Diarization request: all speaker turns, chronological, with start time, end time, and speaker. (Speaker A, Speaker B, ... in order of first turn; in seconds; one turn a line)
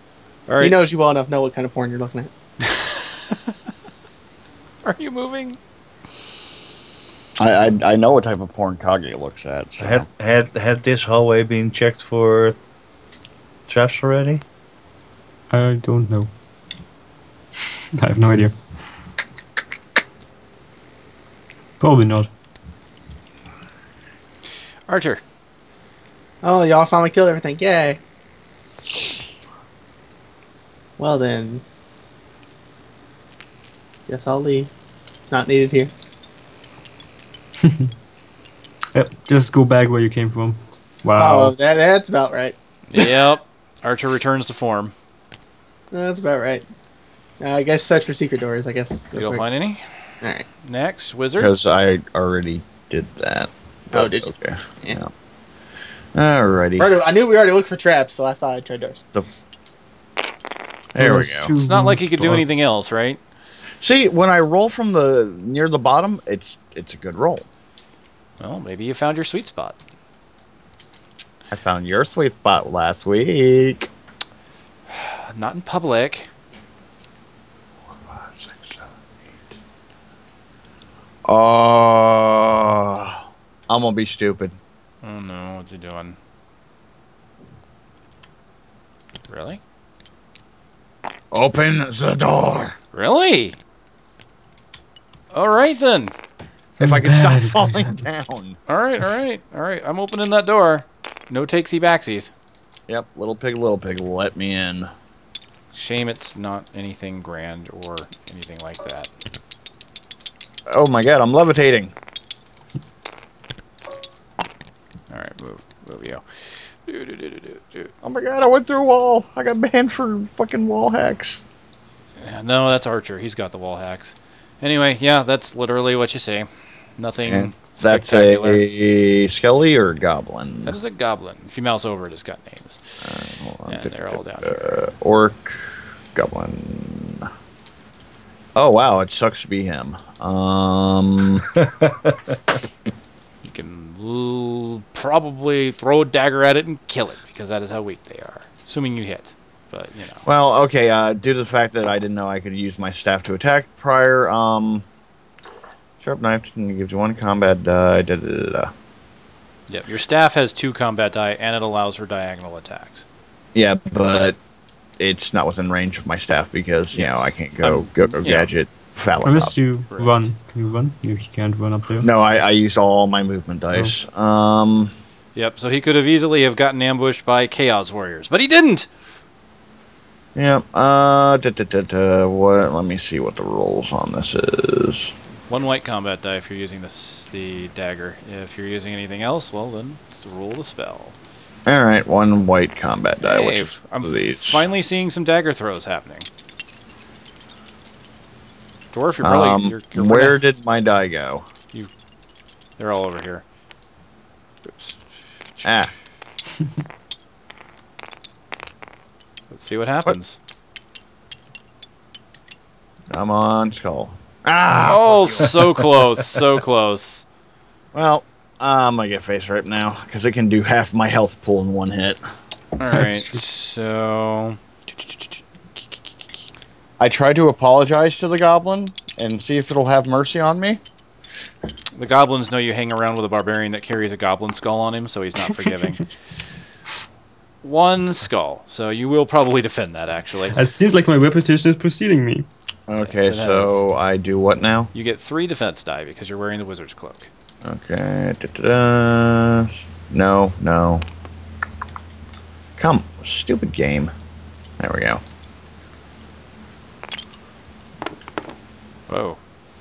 Speaker A: 0.5-0.8
Speaker B: 0.6-2.3
Speaker A: 2.6-3.5
Speaker A: 4.8-5.6
Speaker C: 7.4-10.1
Speaker D: 9.8-12.6
Speaker D: 13.7-14.4
Speaker E: 15.5-16.3
Speaker E: 17.9-18.6
Speaker E: 21.8-22.3
Speaker A: 24.9-25.2
Speaker B: 26.4-28.0
Speaker B: 31.0-31.6
Speaker B: 34.1-34.7
Speaker B: 35.3-35.9
Speaker E: 37.6-37.9
Speaker E: 38.9-41.5
Speaker B: 41.2-42.5
Speaker A: 42.9-44.9
Speaker B: 45.9-46.6
Speaker B: 47.4-49.4
Speaker A: 49.1-49.8
Speaker A: 50.6-51.5
Speaker C: 51.4-55.1
Speaker B: 53.9-55.0
Speaker C: 56.1-56.9
Speaker B: 56.8-59.0
Speaker C: 61.0-61.5
Speaker E: 61.0-62.6
Speaker A: 61.6-63.2
Speaker C: 63.8-67.5
Speaker A: 68.4-69.8
Speaker C: 71.5-73.9
Speaker A: 74.9-76.3
Speaker C: 78.0-79.5
Speaker C: 81.3-84.6
Speaker A: 85.0-86.2
Speaker A: 89.3-89.6
Speaker C: 91.3-92.8
Speaker A: 92.9-93.6
Speaker A: 95.3-96.1
Speaker E: 96.8-98.1
Speaker C: 96.8-98.6
Speaker A: 98.7-102.3
Speaker C: 102.9-104.9
Speaker A: 105.7-109.1
Speaker C: 110.7-111.9
Speaker A: 115.1-117.9
Speaker C: 118.0-121.4
Speaker A: 122.2-128.6
Speaker C: 127.2-130.8
Speaker A: 130.7-132.8
Speaker C: 133.0-137.3
Speaker A: 133.7-134.8
Speaker C: 138.6-141.5
Speaker D: 141.5-142.4
Speaker A: 143.4-150.3
Speaker C: 150.2-154.9
Speaker C: 156.0-158.7
Speaker A: 159.7-163.1
Speaker C: 163.6-164.4
Speaker C: 165.0-169.5
Speaker A: 166.9-168.5
Speaker E: 169.2-172.1
Speaker A: 169.9-170.2
Speaker C: 172.0-174.9
Speaker A: 175.3-178.9
Speaker C: 180.3-185.1
Speaker A: 185.5-191.2
Speaker C: 191.7-194.6
Speaker A: 193.2-196.3
Speaker A: 198.9-200.4
Speaker C: 199.2-201.5
Speaker A: 202.8-203.4
Speaker A: 204.7-205.0
Speaker C: 205.6-205.9
Speaker A: 209.5-210.4
Speaker C: 213.1-215.5
Speaker A: 214.8-217.2
Speaker C: 217.9-222.2
Speaker A: 222.8-226.5
Speaker E: 222.9-223.4
Speaker C: 227.0-230.8
Speaker A: 232.0-236.1
Speaker A: 237.6-240.6
Speaker E: 240.5-242.5
Speaker C: 242.9-244.9
Speaker A: 243.1-243.8
Speaker A: 244.9-247.3
Speaker C: 247.6-251.1
Speaker C: 252.8-254.1
Speaker C: 254.8-255.2
Speaker A: 259.1-259.4